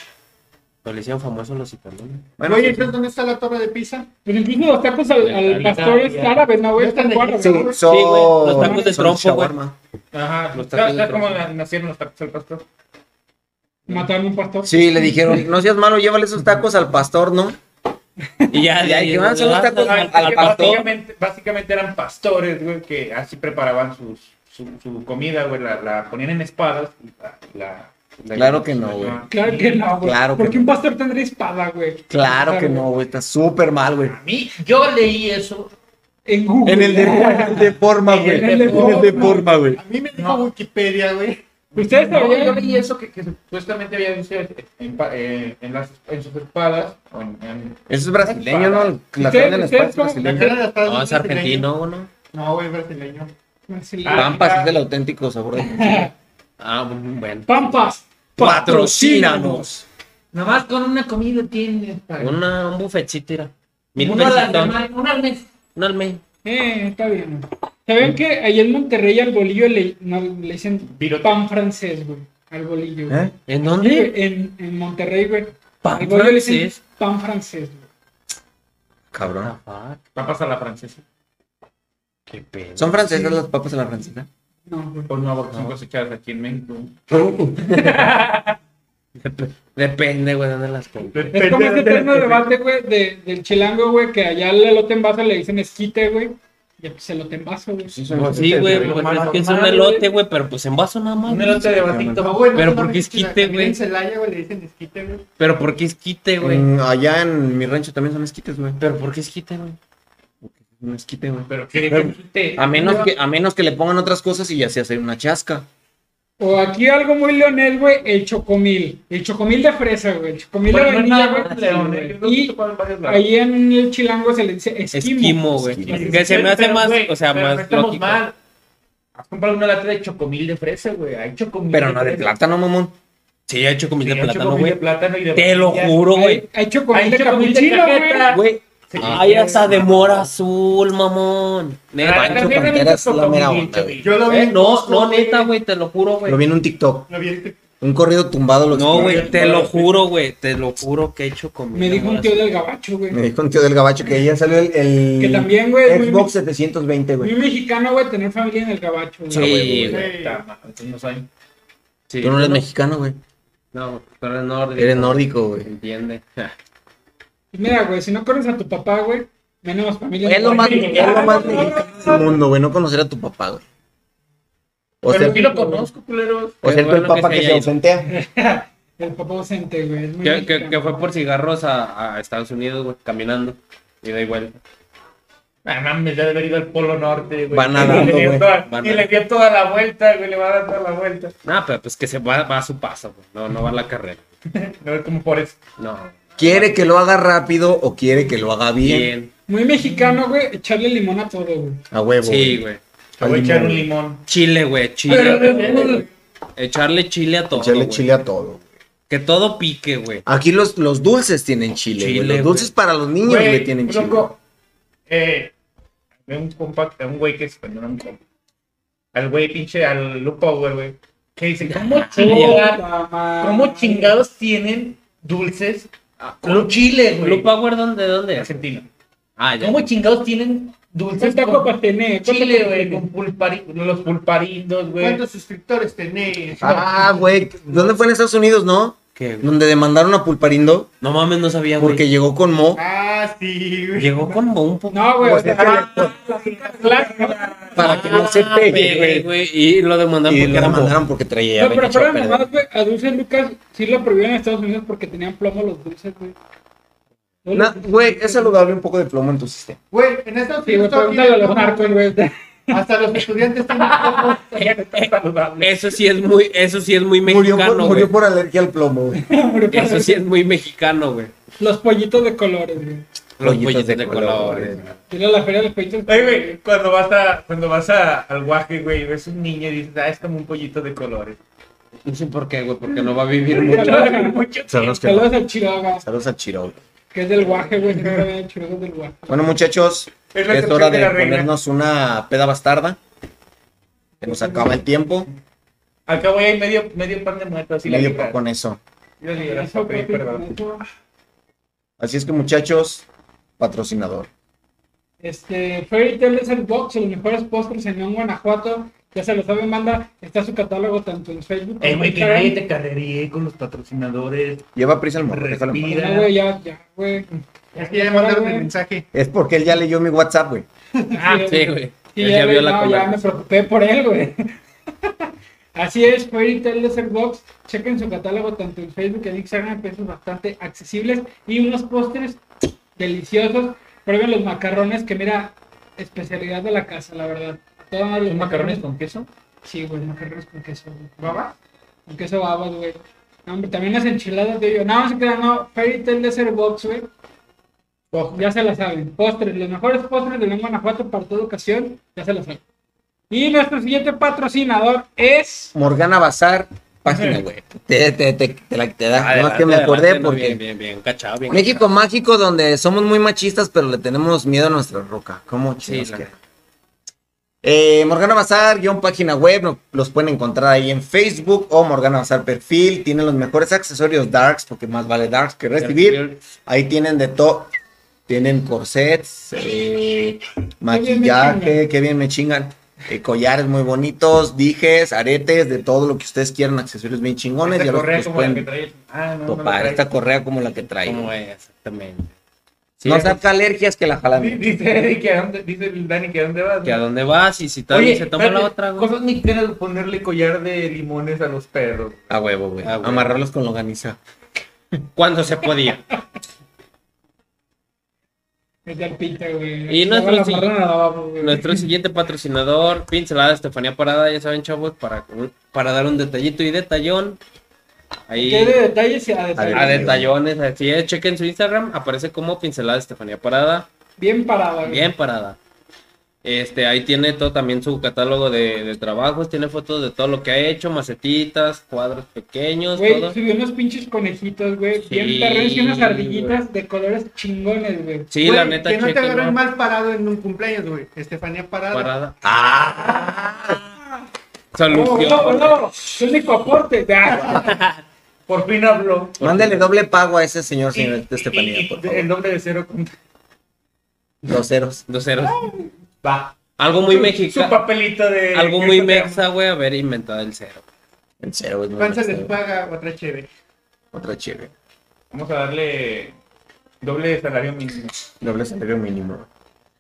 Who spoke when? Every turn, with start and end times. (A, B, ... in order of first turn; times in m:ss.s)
0:00.8-0:02.3 A
0:02.4-0:03.0 B
0:02.4-0:04.1 C
0:04.2-0:07.7 D
0:05.2-0:05.9 A
0:05.6-0:06.4 E
0:06.8-0:07.8 C
0:07.5-0:09.5 A
0:07.7-0:09.8 B
0:08.5-0:09.0 D
0:10.1-0:12.6 E
0:10.5-0:11.4 A
0:13.9-0:15.4 D
0:14.6-0:17.6 B
0:18.5-0:20.9 A
0:18.8-0:20.8 B
0:19.7-0:27.9 E
0:28.2-0:29.2 A
0:28.3-0:29.2 B
0:29.0-0:30.0 E
0:29.3-0:32.9 D
0:30.0-0:30.8 B
0:32.1-0:34.2 B
0:34.1-0:35.7 E
0:36.3-0:39.4 D
0:36.6-0:39.8 B
0:38.1-0:39.5 E
0:38.8-0:41.4 C
0:40.2-0:40.5 E
0:41.8-0:42.8 D
0:41.8-0:49.0 E
0:47.9-0:50.6 B
0:49.2-0:50.3 D
0:50.2-0:51.7 C
0:50.8-0:52.1 A
0:52.3-0:53.3 C
0:53.7-0:54.4 D
0:54.0-0:54.7 E
0:54.1-0:56.1 B
0:55.6-0:56.1 D
0:56.6-0:57.8 A
0:57.5-0:59.7 D
0:58.4-0:59.8 B
1:00.3-1:02.4 E
1:02.2-1:04.8 A
1:04.0-1:05.5 E
1:05.8-1:06.2 A
1:06.4-1:17.9 D
1:10.9-1:11.3 E
1:13.5-1:14.1 A
1:15.8-1:16.8 A
1:19.1-1:19.5 B
1:19.2-1:20.0 A
1:20.2-1:21.0 E
1:22.3-1:23.3 A
1:22.8-1:24.3 B
1:24.7-1:25.1 D
1:25.1-1:27.0 E
1:27.6-1:28.6 E
1:29.2-1:31.4 A
1:31.1-1:32.5 E
1:31.3-1:38.0 D
1:31.4-1:32.0 C
1:37.8-1:39.1 B
1:38.1-1:40.0 E
1:38.1-1:42.0 A
1:39.6-1:40.0 D
1:41.2-1:42.6 E
1:41.7-1:42.2 B
1:42.2-1:45.2 C
1:42.5-1:43.8 A
1:45.4-1:46.7 A
1:46.4-1:48.8 B
1:48.8-1:49.8 A
1:50.4-1:55.7 B
1:51.5-1:53.1 E
1:56.4-2:05.4 D
2:00.7-2:03.3 E
2:04.9-2:08.2 A
2:05.6-2:06.3 B
2:05.9-2:08.4 E
2:09.2-2:12.3 E
2:11.7-2:13.0 B
2:13.5-2:14.8 A
2:14.0-2:16.1 E
2:15.4-2:16.4 A
2:16.1-2:18.3 D
2:16.9-2:20.3 E
2:18.3-2:22.8 A
2:22.0-2:24.2 E
2:22.1-2:24.0 B
2:24.0-2:25.5 C
2:24.2-2:26.4 A
2:26.3-2:27.1 B
2:27.1-2:27.6 C
2:27.8-2:29.5 B
2:28.7-2:32.6 A
2:29.0-2:30.0 E
2:29.1-2:29.7 C
2:31.7-2:33.2 D
2:33.1-2:37.4 B
2:35.2-2:36.3 D
2:37.2-2:39.5 D
2:39.3-2:40.1 B
2:39.3-2:40.1 A
2:39.9-2:40.4 C
2:39.9-2:41.3 E
2:42.1-2:42.7 A
2:42.2-2:43.2 B
2:43.7-2:46.6 A
2:44.8-2:45.7 B
2:47.5-2:52.2 D
2:50.2-2:53.6 B
2:50.5-2:52.2 E
2:55.0-2:55.4 B
2:55.1-2:56.6 E
2:55.1-2:55.9 D
2:56.6-2:58.1 B
2:56.6-2:57.7 A
2:58.1-3:01.0 D
3:00.2-3:04.6 A
3:05.6-3:11.3 E
3:07.5-3:08.5 B
3:08.7-3:09.1 A
3:11.4-3:14.2 A
3:14.5-3:15.6 E
3:15.8-3:16.9 A
3:16.4-3:19.1 B
3:18.8-3:19.3 A
3:19.5-3:21.8 D
3:19.8-3:20.2 E
3:21.9-3:22.6 B
3:22.2-3:22.8 A
3:23.2-3:24.2 E
3:23.2-3:23.9 B
3:24.3-3:28.1 A
3:25.1-3:26.1 E
3:27.5-3:28.7 B
3:29.1-3:30.2 A
3:30.3-3:34.3 B
3:32.0-3:32.7 A
3:33.2-3:34.4 E
3:35.1-3:35.5 E
3:36.3-3:38.2 E
3:39.1-3:42.9 E
3:41.7-3:42.7 A
3:42.1-3:44.2 D
3:43.4-3:47.5 E
3:46.2-3:48.6 A
3:48.4-3:48.9 E
3:49.4-3:49.9 A
3:49.6-3:55.2 E
3:51.2-3:53.0 D
3:55.0-3:58.0 C
3:56.6-4:00.9 B
3:59.2-3:59.5 A
4:01.0-4:02.1 A
4:01.8-4:02.8 B
4:02.8-4:04.4 C
4:04.0-4:05.6 A
4:04.9-4:08.0 D
4:05.2-4:06.2 B
4:06.3-4:08.4 E
4:07.8-4:09.3 B
4:07.8-4:11.0 A
4:10.3-4:12.5 B
4:11.6-4:16.4 D
4:17.4-4:18.7 D
4:17.5-4:19.8 B
4:19.9-4:22.0 C
4:20.6-4:22.8 D
4:22.7-4:24.6 C
4:23.8-4:25.9 E
4:25.6-4:28.1 A
4:27.2-4:29.3 B
4:29.2-4:30.2 D
4:29.7-4:31.3 A
4:31.6-4:33.1 D
4:33.4-4:35.0 A
4:33.4-4:34.8 B
4:35.1-4:36.6 D
4:36.1-4:41.4 E
4:42.0-4:44.2 A
4:43.5-4:44.4 D
4:43.5-4:44.9 E
4:44.7-4:45.4 B
4:44.9-4:46.1 D
4:46.0-4:46.8 B
4:47.1-4:49.5 D
4:47.9-4:48.2 E
4:49.3-4:53.0 B
4:50.3-4:51.5 E
4:54.2-4:54.8 D
4:54.2-4:55.3 B
4:56.1-4:58.4 E
4:57.8-4:58.8 B
4:59.2-5:00.5 E
4:59.4-5:00.8 D
5:02.0-5:03.1 B
5:03.6-5:04.3 B
5:05.2-5:12.6 D
5:11.8-5:14.7 E
5:14.8-5:15.9 B
5:15.2-5:16.3 E
5:15.8-5:18.7 D
5:17.8-5:19.1 C
5:19.1-5:20.7 B
5:21.1-5:32.4 D
5:21.4-5:23.3 A
5:33.0-5:38.8 D
5:38.3-5:39.3 E
5:39.6-5:41.4 D
5:41.2-5:41.5 E
5:42.1-5:47.1 D
5:48.1-5:48.4 E
5:48.3-5:52.6 D
5:53.3-5:55.8 D
5:55.7-6:00.6 B
5:57.1-5:57.4 E
5:59.1-6:01.9 A
6:01.5-6:06.3 B
6:05.8-6:06.3 A
6:07.6-6:17.7 B
6:15.8-6:16.4 A
6:18.3-6:28.7 B
6:20.9-6:21.8 D
6:27.7-6:30.1 E
6:29.5-6:31.3 B
6:31.0-6:32.3 A
6:33.0-6:33.4 A
6:33.0-6:34.6 B
6:34.3-6:37.0 E
6:36.8-6:39.1 A
6:37.9-6:42.3 E
6:42.3-6:44.2 B
6:42.4-6:43.4 A
6:45.2-6:46.1 A
6:48.9-6:51.9 D
6:49.9-6:50.7 A
6:51.4-6:57.4 A
6:58.3-6:58.8 A
6:58.4-7:00.2 D
6:59.6-7:00.3 B
6:59.7-7:03.9 A
7:04.2-7:05.1 D
7:04.9-7:05.6 A
7:06.4-7:13.4 A
7:13.0-7:18.3 D
7:15.0-7:16.6 A
7:18.3-7:19.6 A
7:18.4-7:22.1 C
7:21.9-7:22.4 A
7:22.4-7:23.8 B
7:24.7-7:25.8 A
7:24.9-7:27.8 D
7:27.4-7:27.7 B
7:27.5-7:28.0 A
7:28.5-7:29.5 E
7:29.4-7:29.9 A
7:29.4-7:32.3 B
7:30.9-7:33.1 E
7:34.4-7:35.0 B
7:34.5-7:35.6 A
7:35.4-7:35.9 D
7:36.2-7:39.4 E
7:36.8-7:37.8 A
7:38.5-7:40.8 A
7:41.4-7:42.6 B
7:42.0-7:43.5 C
7:44.1-7:44.7 B
7:45.3-7:46.4 E
7:47.0-7:48.2 E
7:48.4-7:49.5 B